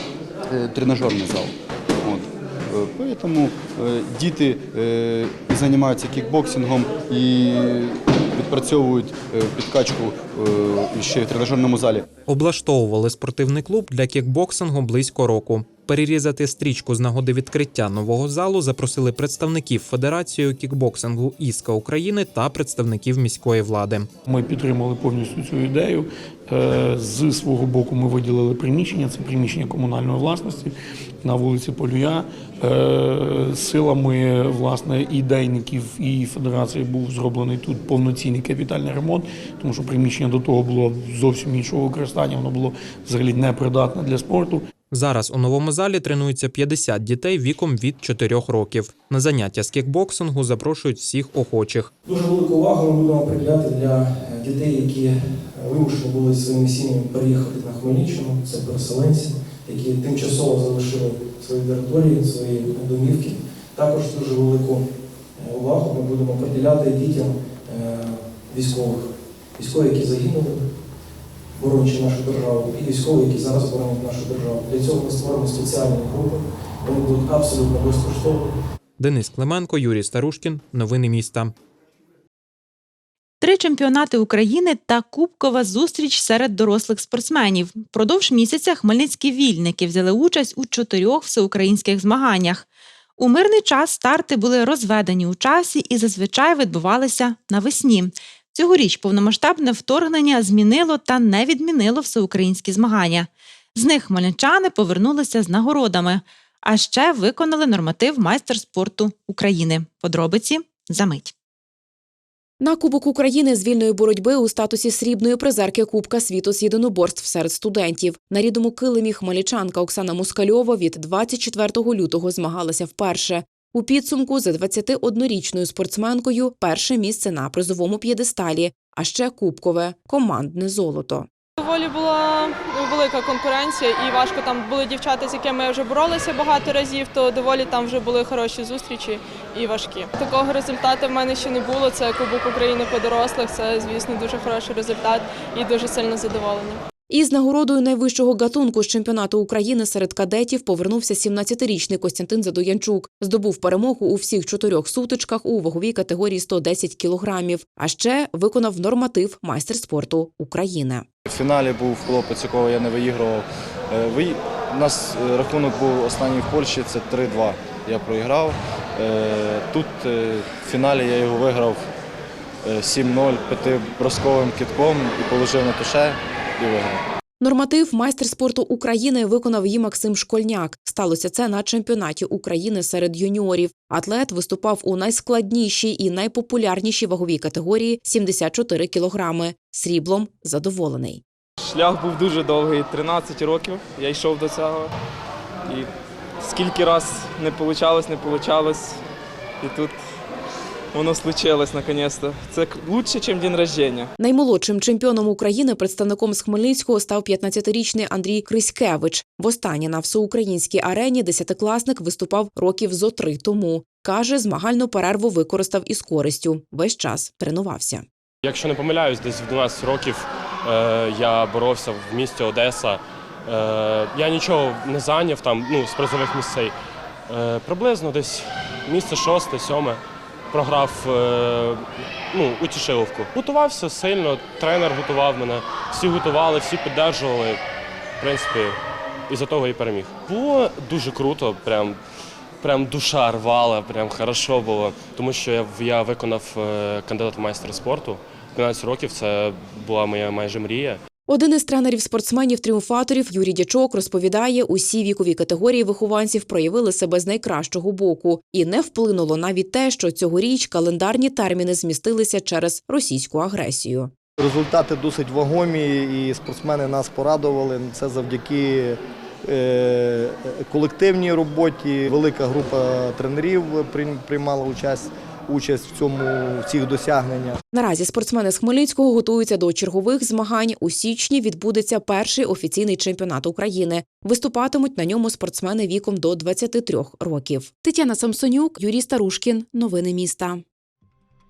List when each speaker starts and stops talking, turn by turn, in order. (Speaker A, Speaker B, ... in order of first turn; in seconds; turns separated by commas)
Speaker A: 0.5-12.1, Speaker B: 12.3-24.1, Speaker C: 24.3-44.6, Speaker B: 44.9-51.9, Speaker D: 52.1-64.8, Speaker D: 65.4-69.0, Speaker D: 69.6-70.6, Speaker D: 71.6-78.5, Speaker B: 79.0-81.5, Speaker E: 83.4-92.7, Speaker E: 93.2-111.3, Speaker F: 112.6-131.3, Speaker G: 131.6-146.7, Speaker F: 147.1-161.1, Speaker H: 161.3-171.9, Speaker H: 172.7-177.0, Speaker F: 177.4-191.2, Speaker I: 191.6-194.9, Speaker I: 196.4-199.0, Speaker I: 199.6-199.9, Speaker I: 200.9-204.1, Speaker F: 204.2-218.1, Speaker J: 218.4-226.7, Speaker J: 227.3-230.0, Speaker J: 230.5-237.6, Speaker J: 238.2-238.8, Speaker J: 239.3-242.0, Speaker J: 242.6-251.0, Speaker F: 251.3-264.1, Speaker K: 264.4-277.6, Speaker F: 277.7-290.6